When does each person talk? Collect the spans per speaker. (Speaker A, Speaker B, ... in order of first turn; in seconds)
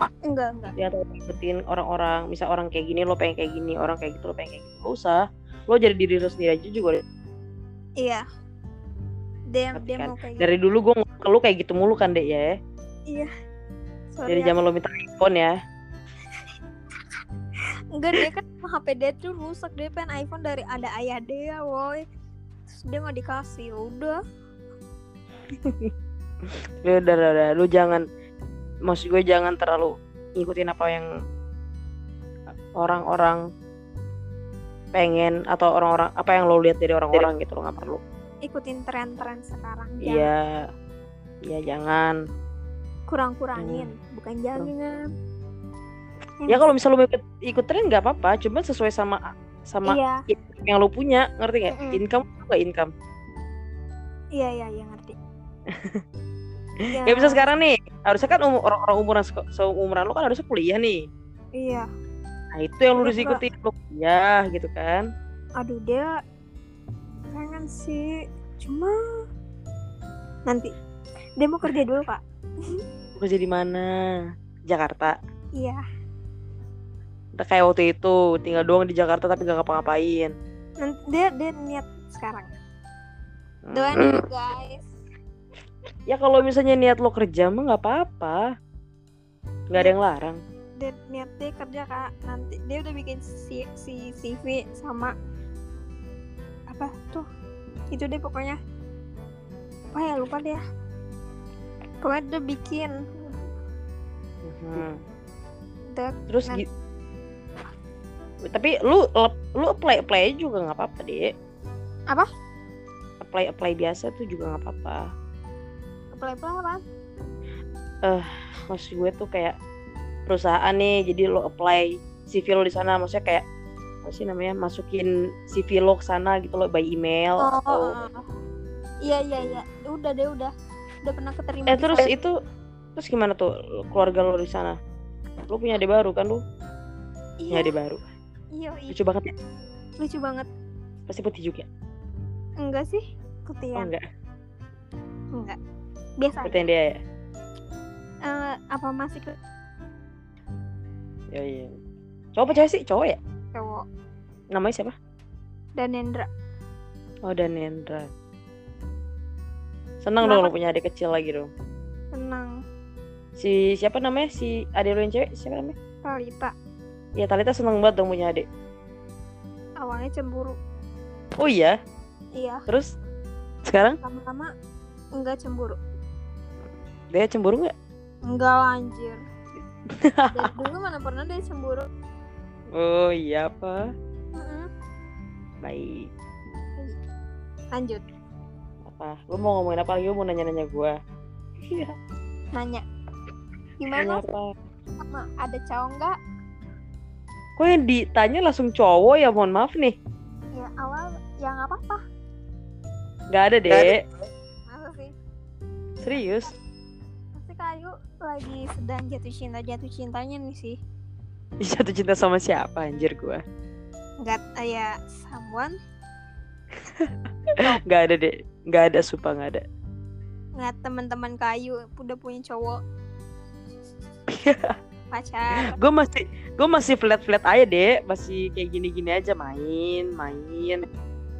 Speaker A: 0.3-0.7, 9.5-10.5, 14.1-14.5, 17.9-22.0, 22.7-24.2, 38.5-40.3, 43.1-45.0, 49.9-50.2, 51.7-52.0, 54.4-55.1, 56.9-57.4, 61.6-61.9, 63.0-63.4, 65.6-66.1, 67.3-68.1, 68.6-69.0, 71.4-72.2, 80.8-82.5, 83.7-84.9, 90.8-95.1, 96.7-97.2, 97.9-98.5, 99.9-100.6, 102.0-102.9, 105.9-106.6, 116.1-116.8, 127.4-128.2, 129.0-130.5, 131.1-132.1, 137.4-137.7, 138.5-138.9, 140.0-140.5, 142.6-143.9, 146.2-146.6, 148.3-149.3, 153.5-153.8, 155.8-156.3, 160.2-160.5, 162.1-162.5, 166.0-166.5, 169.8-170.6, 172.4-172.6, 174.0-174.5, 175.2-175.8, 178.3-179.2, 180.3-181.9, 184.3-184.7, 187.7-188.0, 192.5-192.8, 193.8-194.2, 195.0-196.1, 200.6-202.0, 204.7-205.1, 207.3-210.8, 214.2-215.7, 220.6-222.8, 225.1-225.8
Speaker B: 0.8-7.0, 9.7-12.5, 14.3-15.5, 25.5-25.9, 26.8-28.0, 28.9-31.1, 32.8-33.4, 34.9-38.0, 40.0-40.6, 41.4-42.1, 43.6-43.9, 46.5-52.9, 55.7-56.0, 56.8-61.1, 62.5-65.1, 73.2-73.9, 74.7-75.2, 77.4-80.3, 83.6-84.2, 86.1-88.5, 89.7-90.4, 104.4-105.0, 106.3-106.7, 108.4-111.3, 113.2-115.0, 118.0-119.5, 120.3-123.4, 124.0-128.0, 131.7-132.3, 133.0-134.8, 135.5-136.4, 137.5-138.0, 138.9-139.3, 141.1-141.7, 143.8-144.0, 146.4-147.0, 151.3-151.7, 152.3-153.2, 154.5-154.9, 157.3-158.1, 160.0-161.5, 163.4-165.7, 167.2-168.4, 171.4-171.7, 173.7-174.0, 177.1-177.7, 179.9-180.5, 182.7-183.8, 185.6-186.1, 188.8-190.9, 191.6-191.9, 193.9-194.4, 197.6-199.9, 203.3-204.0, 206.0-206.5, 211.6-213.4, 216.9-217.1, 217.8-219.6, 224.3-224.7, 225.7-230.8